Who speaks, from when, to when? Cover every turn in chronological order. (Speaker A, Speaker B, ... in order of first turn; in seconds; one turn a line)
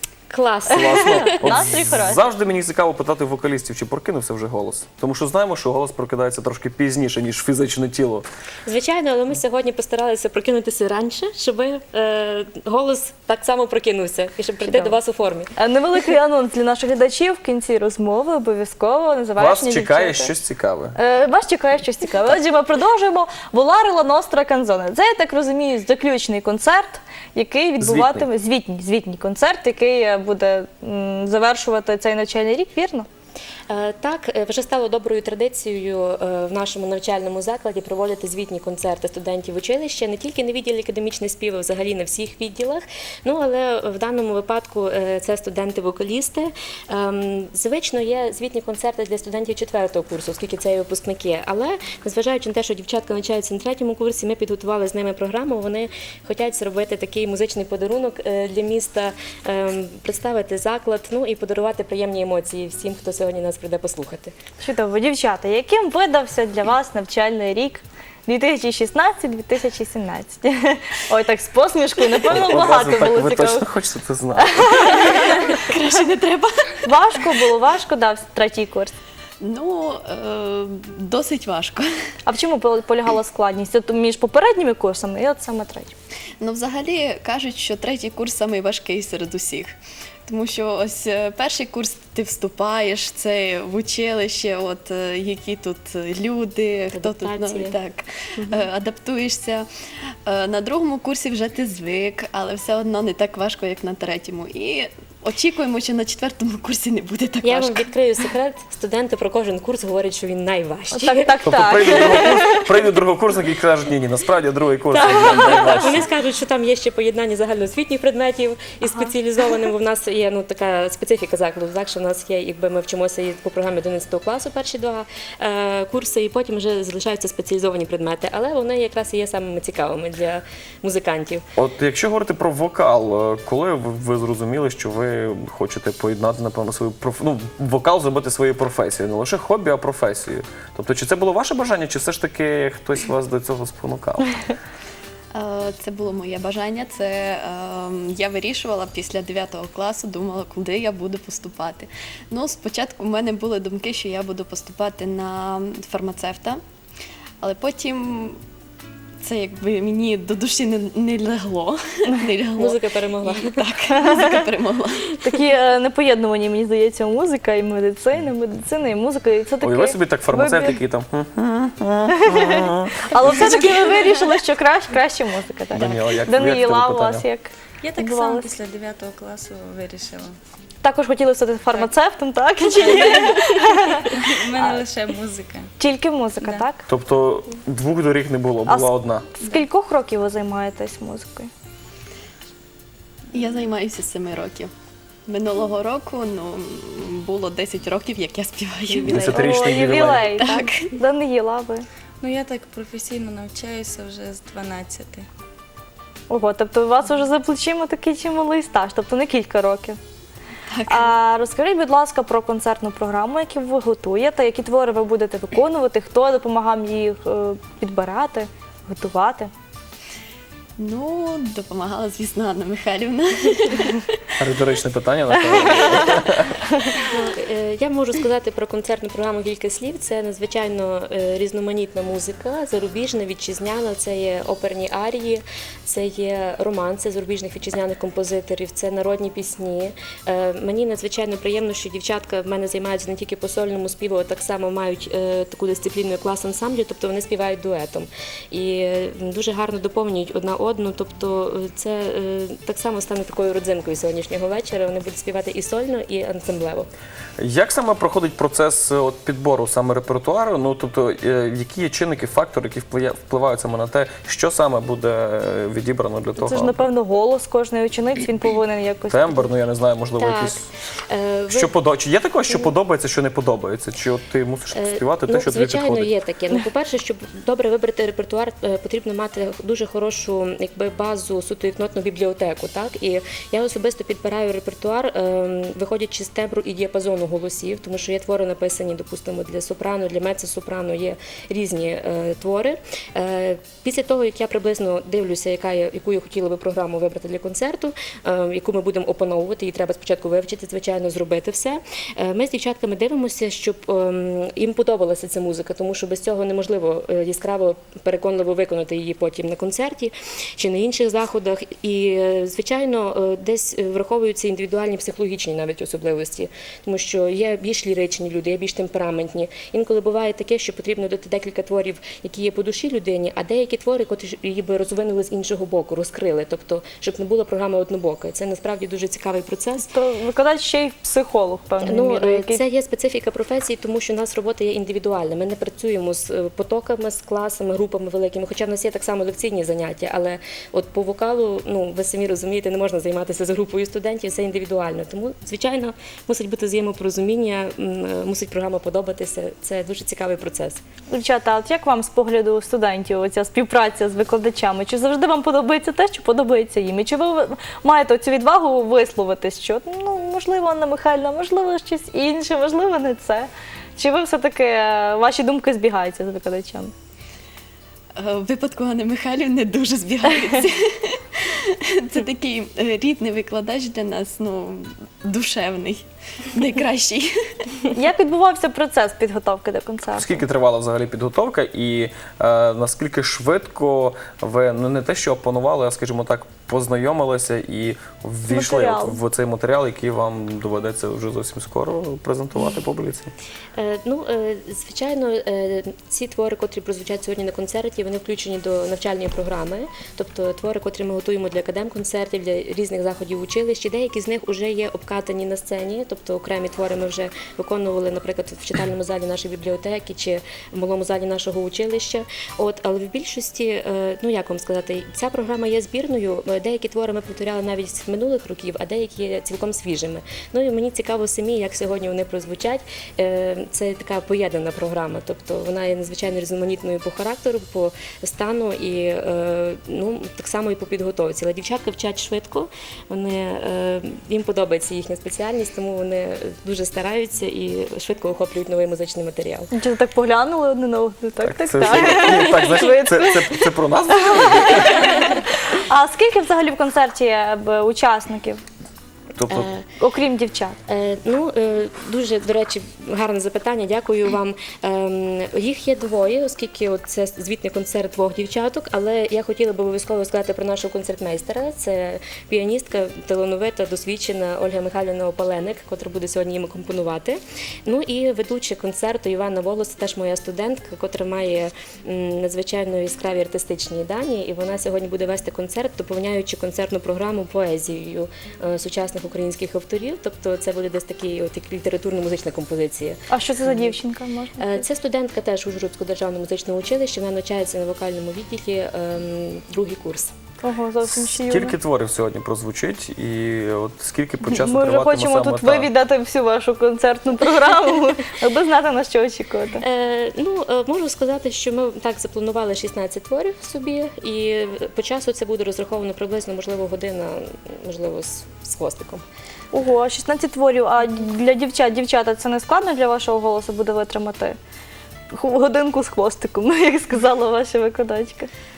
Speaker A: 0.3-1.6
Speaker B: 0.7-8.3
Speaker C: 0.7-2.2
Speaker A: 8.7-15.5
Speaker C: 14.7-14.9
Speaker C: 15.6-20.3
Speaker B: 19.4-20.9
Speaker C: 20.9-33.1
Speaker B: 27.8-28.3
Speaker A: 33.7-64.3
Speaker C: 64.6-73.7
Speaker B: 72.3-75.4
Speaker C: 74.4-75.6
Speaker D: 75.2-77.2
Speaker C: 76.8-79.0
Speaker D: 79.4-81.9
Speaker C: 82.3-85.9
Speaker D: 86.4-89.8
Speaker D: 90.3-99.7
Speaker A: 96.9-97.8
Speaker A: 98.4-98.7
Speaker D: 100.2-107.9
Speaker A: 107.4-111.4
Speaker C: 110.9-112.7
Speaker B: 111.5-116.1
Speaker A: 114.9-131.4
Speaker C: 115.1-115.7
Speaker B: 131.6-144.5
Speaker D: 145.3-156.6
Speaker D: 157.4-158.4
Speaker D: 159.2-165.2
Speaker A: 162.6-163.8
Speaker C: 165.2-170.8
Speaker B: 169.6-173.7
Speaker C: 172.1-178.5
Speaker D: 173.2-174.0
Speaker E: 173.4-173.8
Speaker B: 175.7-177.2
Speaker D: 175.8-176.1
Speaker E: 177.8-180.4
Speaker C: 180.8-184.2
Speaker E: 182.8-185.7
Speaker C: 185.8-186.8
Speaker E: 186.4-186.7
Speaker B: 186.9-189.3
Speaker C: 188.7-191.5
Speaker D: 193.3-194.7
Speaker D: 195.3-200.9
Speaker B: 199.0-200.3
Speaker C: 199.0-201.9
Speaker E: 202.2-205.3
Speaker C: 206.3-210.0
Speaker D: 210.7-211.1
Speaker C: 210.9-219.5
Speaker D: 220.8-224.2
Speaker B: 224.4-226.6
Speaker C: 225.6-226.2
Speaker A: 227.0-256.9
Speaker B: 257.4-266.9
Speaker C: 266.4-269.5
Speaker B: 269.1-270.7
Speaker A: 270.2-271.7
Speaker B: 271.5-276.1
Speaker A: 272.5-272.7
Speaker A: 274.7-329.9
Speaker C: 329.9-332.6
Speaker A: 331.8-350.8
Speaker C: 351.1-366.9
Speaker D: 368.2-377.3
Speaker C: 377.9-380.4
Speaker B: 380.1-393.3
Speaker C: 388.5-389.2
Speaker A: 393.8-439.7
Speaker C: 439.7-448.6
Speaker B: 441.4-445.3
Speaker B: 449.4-449.7
Speaker A: 449.5-449.9
Speaker C: 450.0-450.8
Speaker A: 450.9-484.0
Speaker C: 483.3-484.8
Speaker A: 484.6-490.3
Speaker C: 490.6-491.7
Speaker B: 491.1-495.9
Speaker C: 494.4-499.8
Speaker A: 499.8-509.2
Speaker C: 509.7-514.6
Speaker C: 515.3-518.5